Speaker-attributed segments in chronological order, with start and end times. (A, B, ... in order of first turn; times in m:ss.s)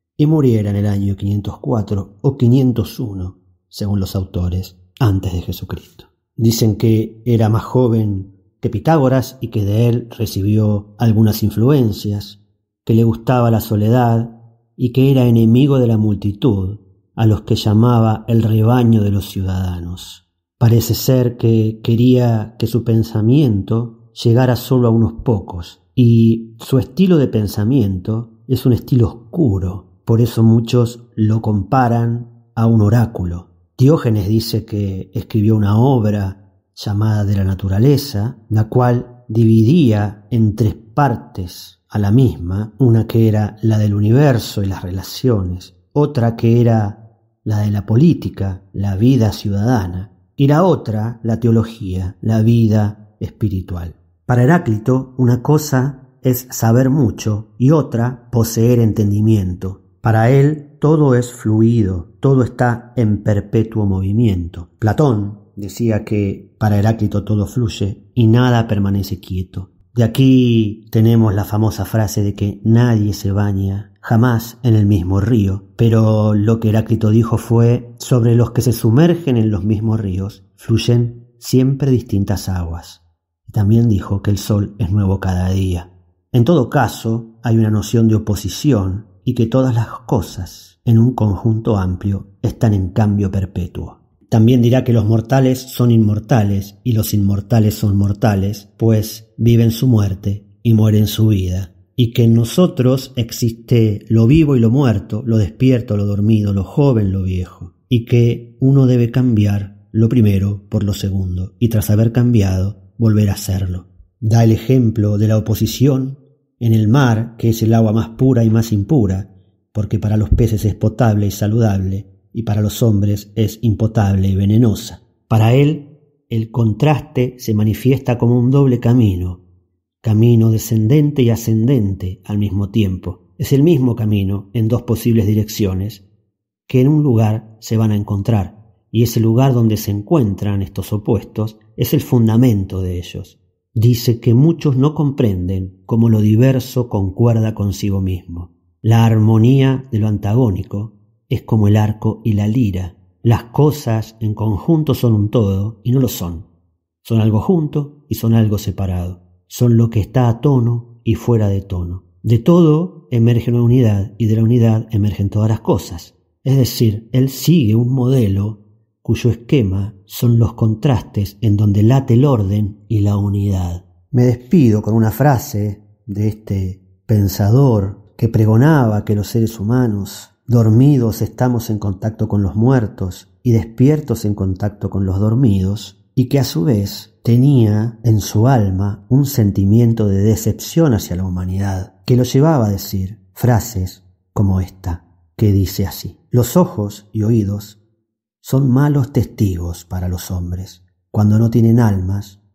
0:00.2-2:09.4 A
2:10.0-2:16.0 A
2:16.7-2:36.5 A
2:37.0-3:17.8 A
3:18.4-3:22.4 A